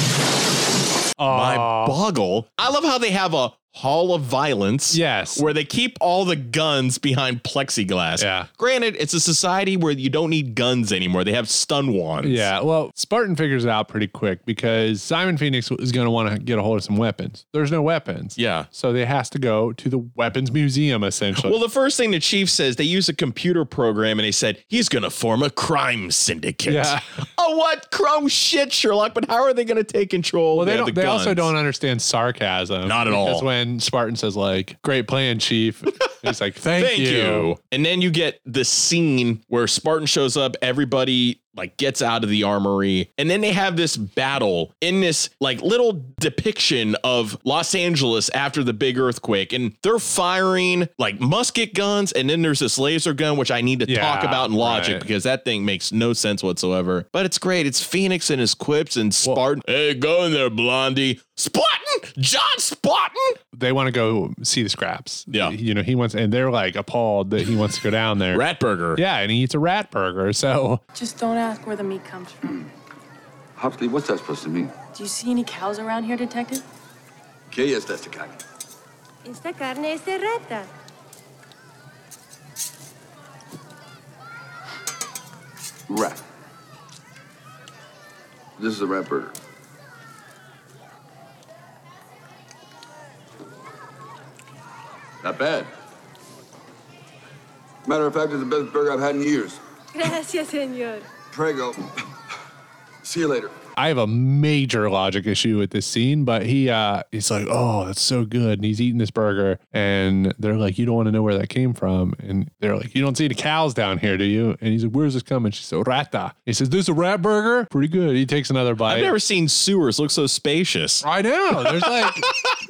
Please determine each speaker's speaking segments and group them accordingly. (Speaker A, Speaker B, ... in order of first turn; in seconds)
Speaker A: 1.2-2.0, 4.9-5.5, 8.2-8.5, 12.2-21.6, 26.7-27.0, 30.5-37.5, 53.9-55.1, 63.5-68.4, 68.9-70.8, 103.8-119.1, 121.0-122.3
Speaker B: 1.3-12.5, 18.4-18.7, 21.4-31.5, 32.8-33.5, 36.7-63.4, 68.3-69.0, 118.8-121.0, 121.6-121.9
Speaker C: 70.9-72.6, 74.9-76.6
Speaker D: 73.6-74.7, 77.5-78.4, 85.9-86.2, 88.6-89.3, 95.2-95.7, 97.8-99.6, 101.3-101.8, 103.0-103.5
Speaker E: 79.2-80.7, 100.0-101.0